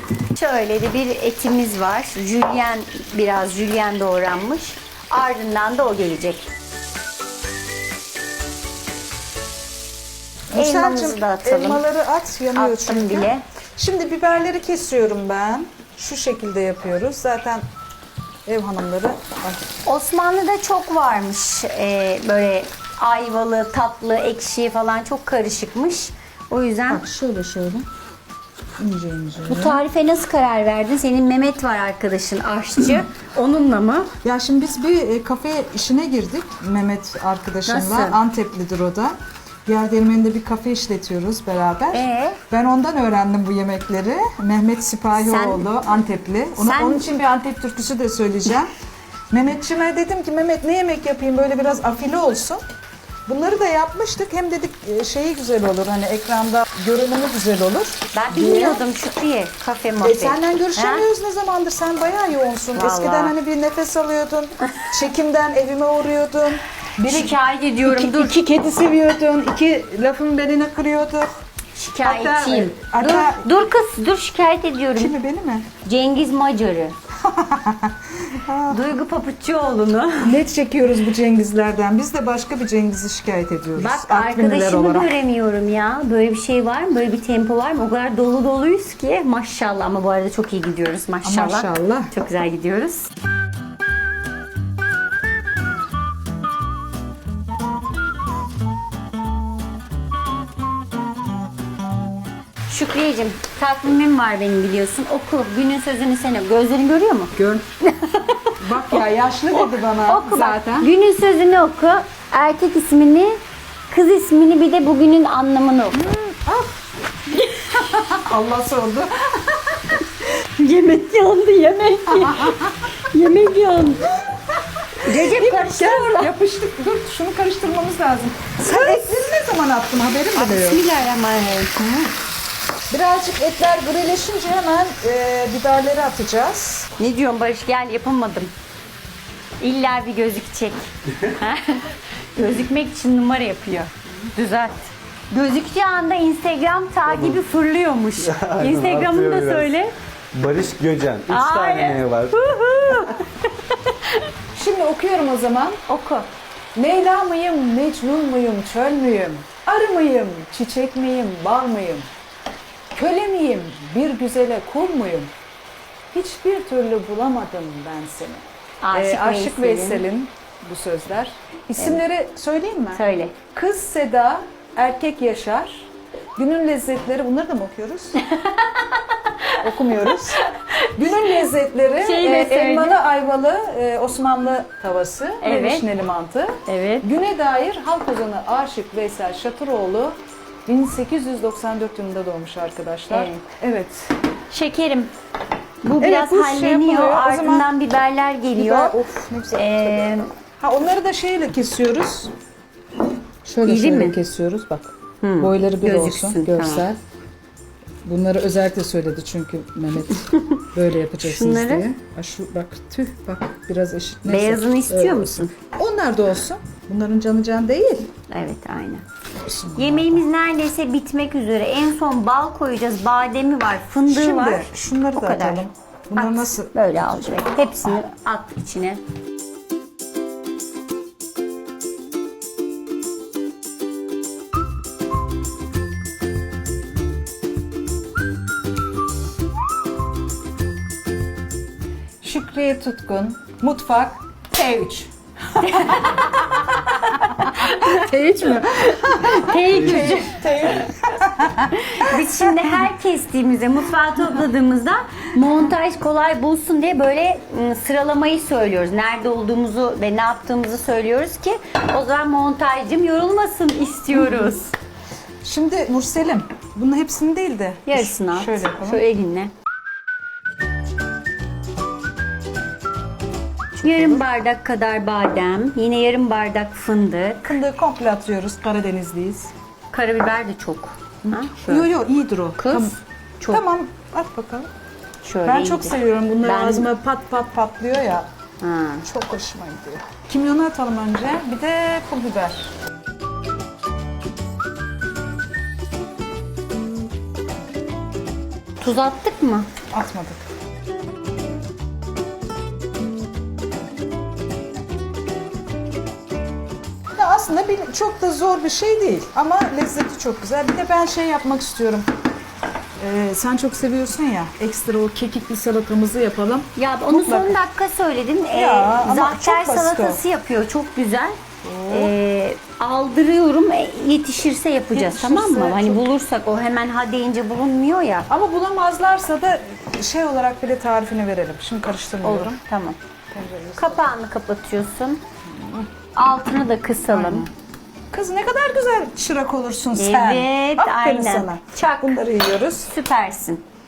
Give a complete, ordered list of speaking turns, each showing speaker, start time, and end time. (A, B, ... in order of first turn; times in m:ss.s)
0:00.3-0:06.5 A
0:10.5-0:17.6 B
0:10.5-0:11.8 A
0:12.5-0:13.4 A
0:18.4-0:19.7 B
0:19.8-0:27.0 A
0:26.9-0:27.8 B
0:28.8-0:29.8 B
0:29.5-0:34.1 A
0:34.2-0:39.1 B
0:37.6-0:38.2 A
0:39.6-0:48.7 B
0:41.9-0:42.4 A
0:45.2-0:45.7 A
0:46.6-0:47.1 A
0:49.3-0:52.6 B
0:53.3-0:58.8 B
0:58.1-1:01.0 A
1:00.0-1:11.3 B
1:02.7-1:03.3 A
1:07.0-1:08.4 A
1:11.7-1:15.1 A
1:12.0-1:13.5 B
1:15.0-1:15.7 B
1:15.8-1:16.9 A
1:17.2-1:18.9 B
1:18.7-1:20.4 A
1:20.2-1:25.1 B
1:23.8-1:33.1 A
1:31.2-1:32.1 B
1:42.7-1:49.0 A
1:48.6-1:50.9 B
1:49.6-1:53.4 A
1:53.9-1:56.0 A
1:55.9-1:56.7 B
1:57.3-1:57.9 A
1:57.8-1:59.8 B
2:00.4-2:04.1 A
2:02.1-2:02.9 B
2:05.0-2:10.8 B
2:05.0-2:06.3 A
2:08.6-2:09.2 A
2:10.3-2:11.8 A
2:11.8-2:12.0 B
2:12.9-2:16.9 B
2:17.0-2:18.5 A
2:19.6-2:29.9 A
2:28.2-2:29.7 C
2:30.3-2:32.4 C
2:31.3-2:34.3 A
2:34.5-2:35.8 B
2:35.9-2:36.3 A
2:36.7-2:42.1 B
2:42.9-2:45.3 B
2:46.1-2:58.2 B
2:48.8-2:50.0 A
2:52.9-2:53.4 A
2:58.2-2:59.6 A
2:59.6-3:00.4 B
3:00.4-3:01.3 A
3:00.9-3:14.2 B
3:02.0-3:03.0 A
3:05.4-3:05.8 A
3:06.6-3:07.0 A
3:13.1-3:13.4 A
3:14.5-3:15.1 A
3:15.8-3:19.0 A
3:16.0-3:17.7 B
3:18.5-3:22.3 B
3:19.5-3:20.3 A
3:23.4-3:27.0 B
3:23.6-3:24.2 A
3:25.2-3:26.9 A
3:28.0-3:38.1 B
3:31.2-3:31.9 A
3:34.2-3:35.5 A
3:38.3-3:39.0 A
3:39.4-3:40.2 B
3:39.7-3:49.0 A
3:44.1-3:47.3 B
4:02.2-4:06.3 B
4:05.6-4:10.9 A
4:07.3-4:12.2 B
4:11.7-4:24.7 A
4:24.1-4:24.5 B
4:25.4-4:29.0 B
4:27.8-4:29.5 A
4:33.8-4:34.2 B
4:33.8-4:37.6 A
4:37.4-4:39.5 B
4:39.9-4:41.9 A
4:41.2-4:44.7 B
4:42.6-4:43.6 A
4:45.2-4:46.9 A
4:45.4-4:48.3 B
4:48.6-4:49.0 A
4:49.0-4:52.7 B
4:58.8-4:59.7 A
4:59.9-5:00.4 B
5:07.1-5:12.1 B
5:13.0-5:17.6 B
5:16.8-5:21.4 A
5:18.5-5:20.2 B
5:21.6-5:22.1 B
5:21.9-5:28.3 A
5:24.9-5:26.0 B
5:28.3-5:32.6 B
5:32.2-5:33.0 A
5:33.3-5:34.2 B
5:33.8-5:35.2 A
5:35.5-5:35.9 B
5:36.2-5:37.5 A
5:37.1-5:37.5 B
5:38.1-5:42.9 B
5:39.9-5:42.2 A
5:42.8-5:43.6 A